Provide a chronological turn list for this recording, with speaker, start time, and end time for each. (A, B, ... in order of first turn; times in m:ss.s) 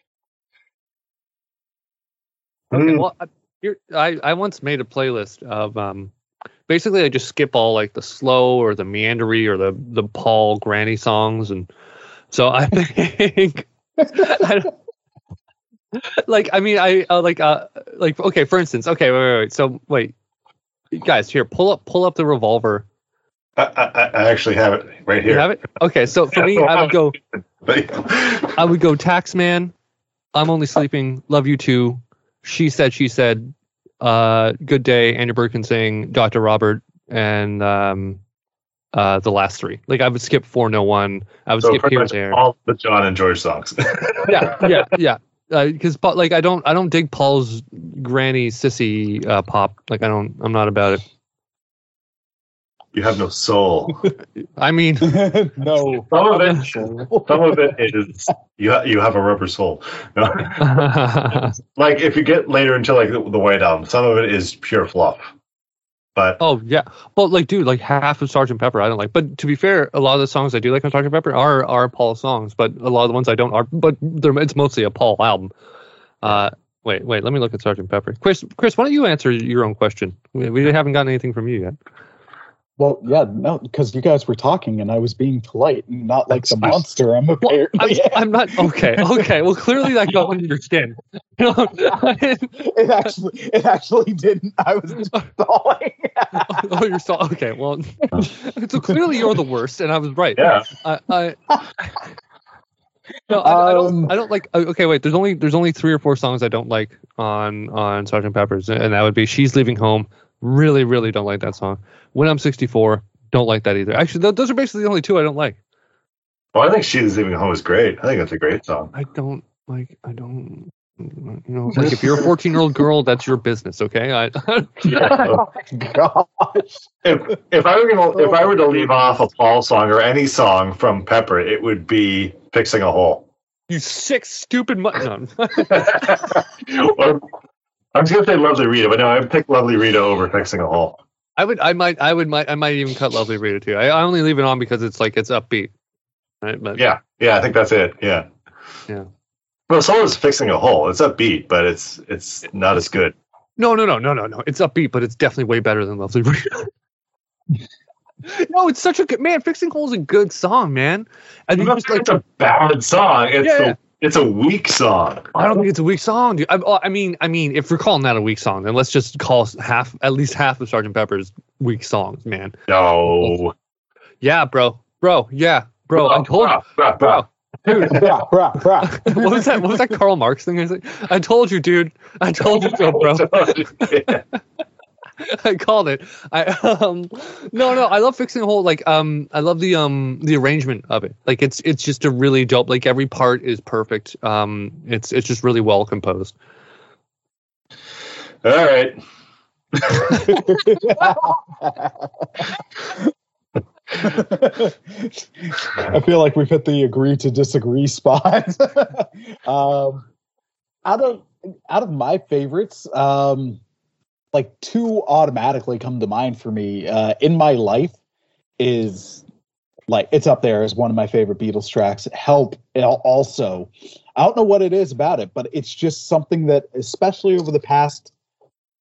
0:02.7-0:03.0 A
0:02.7-0:06.1 B
0:06.7-0:11.7 B
0:12.3-0:14.7 B
0:16.0-0:20.1 B
0:20.9-0:22.8 B
0:23.6-0:25.5 A
0:25.2-0:27.2 B
0:26.3-0:27.0 A
0:27.6-0:28.6 A
0:28.6-0:29.7 B
0:30.4-0:38.2 B
0:38.9-0:42.4 B
0:41.6-0:44.9 A
0:44.2-0:51.0 B
0:52.9-0:54.1 A
0:54.6-0:55.3 B
0:55.0-0:56.1 C
0:56.1-1:05.3 A
0:56.5-0:57.1 B
0:57.1-0:57.8 C
1:00.6-1:01.6 B
1:06.4-1:15.5 B
1:16.2-1:21.8 B
1:22.8-1:29.2 C
1:26.5-1:26.8 B
1:27.7-1:32.6 B
1:32.6-1:36.7 C
1:36.3-1:41.9 B
1:40.4-1:40.7 A
1:43.3-1:55.6 B
1:43.4-1:44.2 C
1:56.5-1:58.9 A
1:58.9-2:05.4 B
2:04.8-2:05.5 A
2:05.6-2:06.9 C
2:07.0-2:13.3 A
2:13.7-2:16.2 B
2:15.6-2:17.2 A
2:18.0-2:21.0 A
2:21.4-2:25.7 B
2:26.4-2:26.8 B
2:26.8-2:28.3 A
2:29.7-2:33.2 A
2:33.6-2:36.7 B
2:38.3-2:42.1 B
2:41.6-2:45.3 A
2:43.4-2:43.8 B
2:45.3-2:52.6 B
2:52.7-2:53.5 A
2:54.2-2:58.1 B
2:56.0-2:58.1 A
2:57.8-3:00.0 C
2:58.8-3:04.2 B
3:02.5-3:04.2 A
3:05.2-3:16.4 B
3:18.4-3:19.0 A
3:19.8-3:20.4 A
3:20.1-3:22.4 C
3:20.1-3:20.4 B
3:24.0-3:30.0 C
3:30.8-3:33.6 C
3:34.3-3:38.0 C
3:38.6-3:39.2 C
3:39.9-3:48.1 C